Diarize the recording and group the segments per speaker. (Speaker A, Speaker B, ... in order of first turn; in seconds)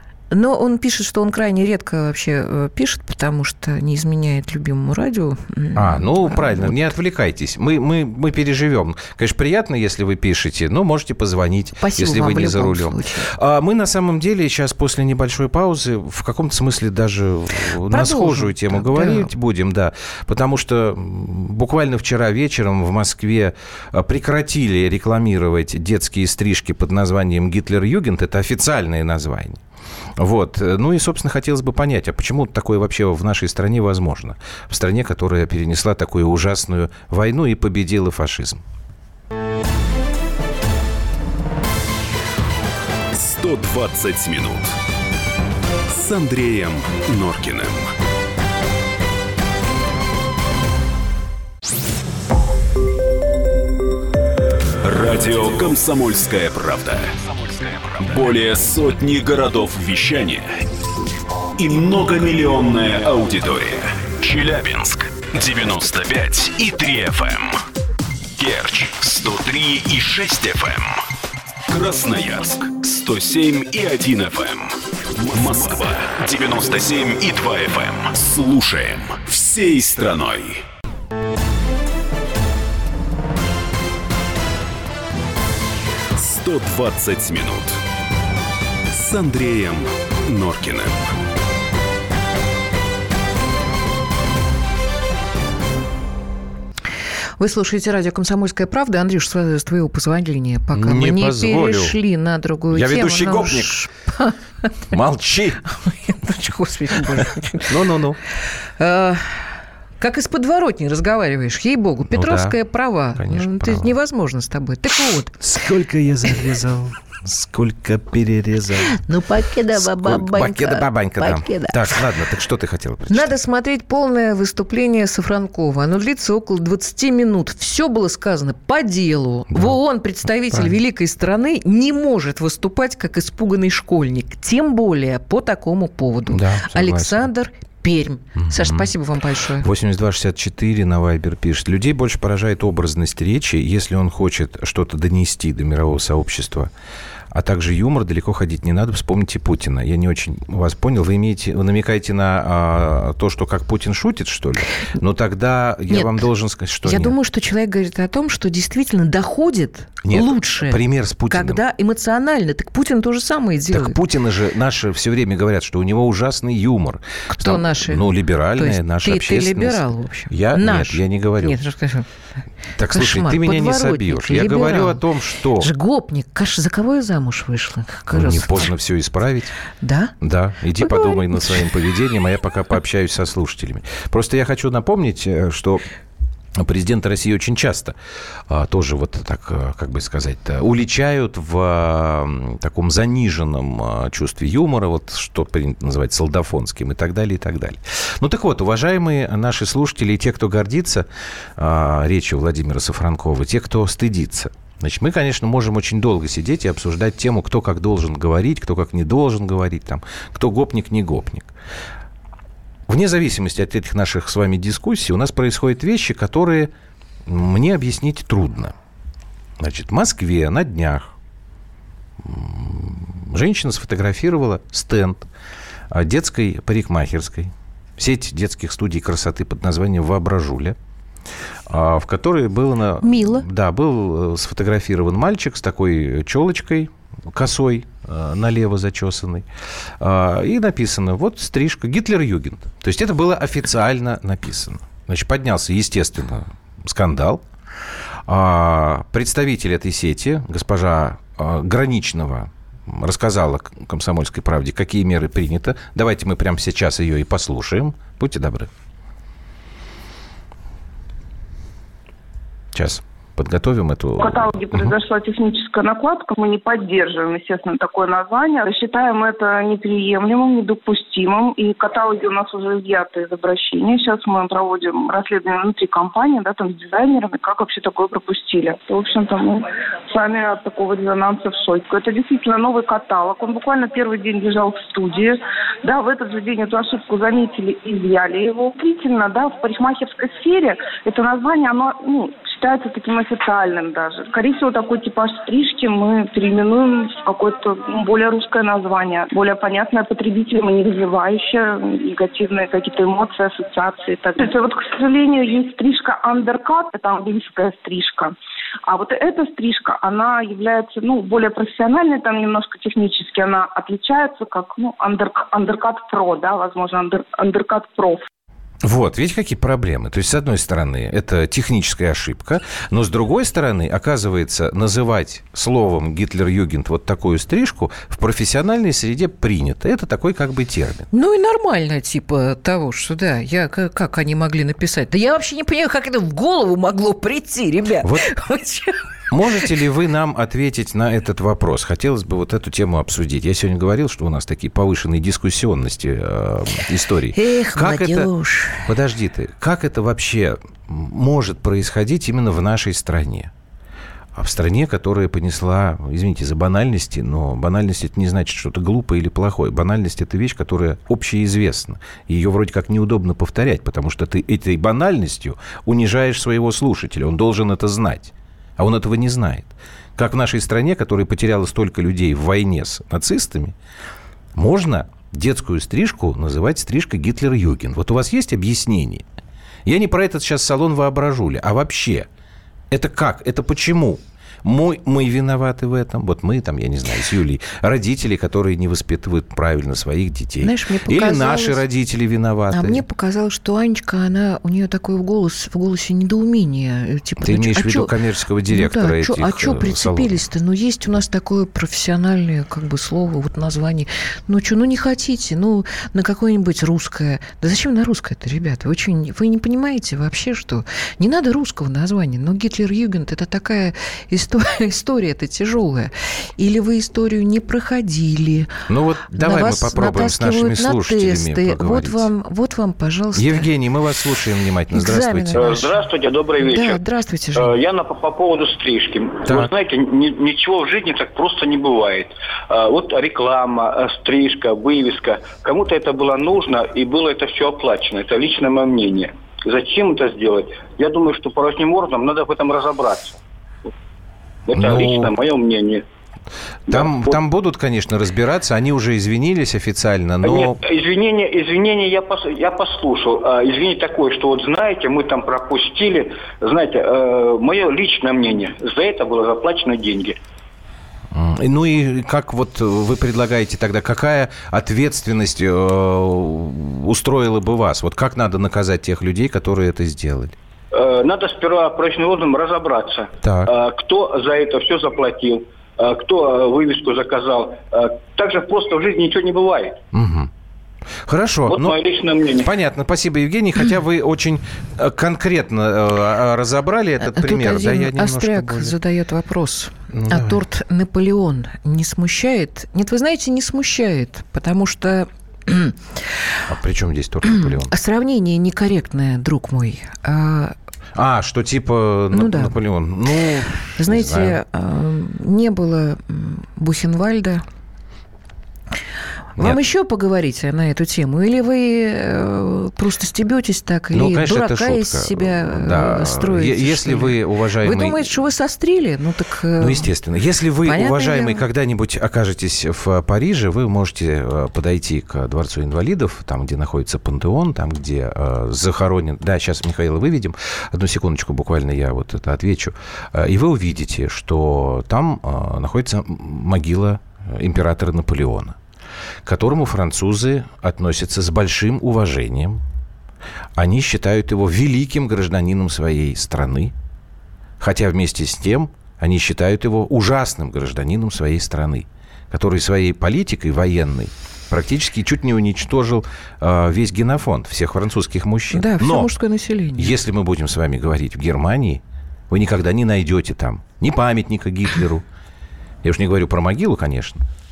Speaker A: 0.3-6.9, 11.8-13.3, 17.9-19.3, 97.4-104.7, 105.8-107.7, 108.8-115.4, 118.8-121.9, 123.1-139.7, 155.9-156.3, 156.8-164.0, 167.3-172.1, 172.9-175.0, 175.6-178.7, 179.8-180.1, 180.8-181.7, 233.0-233.4, 331.1-339.0, 347.3-348.9, 390.6-391.8, 392.7-398.1, 398.7-418.7, 419.3-423.7, 424.9-426.0, 426.6-427.7, 487.2-496.0, 497.5-500.7, 502.3-502.8, 504.0-507.6, 509.6-520.1, 520.8-521.6, 558.7-560.1
Speaker B: 5.7-29.6, 30.2-38.6, 100.7-102.0, 102.7-103.7, 104.9-105.6, 107.7-108.2, 112.1-112.6, 113.1-113.9, 115.4-119.0, 119.7-123.4, 129.5-129.8, 130.5-130.8, 136.3-137.3, 138.4-138.9, 139.6-146.7, 147.3-157.1, 160.0-161.6, 163.7-171.6, 172.8-175.7, 178.1-179.5, 180.2-185.8, 186.6-187.9, 188.5-211.5, 212.9-216.7, 217.2-218.7, 219.6-221.1, 222.2-225.3, 225.9-230.8, 231.7-239.5, 240.0-247.4, 248.2-258.7, 262.7-264.9, 318.8-331.1, 338.0-338.3, 339.3-348.3, 348.8-353.5, 354.3-373.8, 374.5-379.2, 379.8-382.3, 382.9-393.0, 397.4-400.4, 418.9-422.3, 423.3-425.6, 444.7-445.3, 446.9-450.8, 461.3-470.5, 473.4-473.7, 480.1-480.5, 481.2-482.0, 482.6-489.0, 490.1-490.6, 496.7-497.9, 501.1-504.6, 514.1-518.3, 519.8-538.8, 539.4-542.8, 543.8-546.9, 547.8-559.3, 560.0-565.2, 566.0-567.4
Speaker C: 43.1-44.8, 45.9-47.9, 54.8-60.6, 61.6-67.6, 68.4-71.0, 71.7-80.6, 86.1-87.8, 88.9-91.1
Speaker D: 264.2-308.3, 308.9-318.2
Speaker E: 425.6-427.0, 427.5-443.4, 444.7-446.0, 446.9-447.3, 450.4-460.4, 470.9-480.0, 481.7-482.7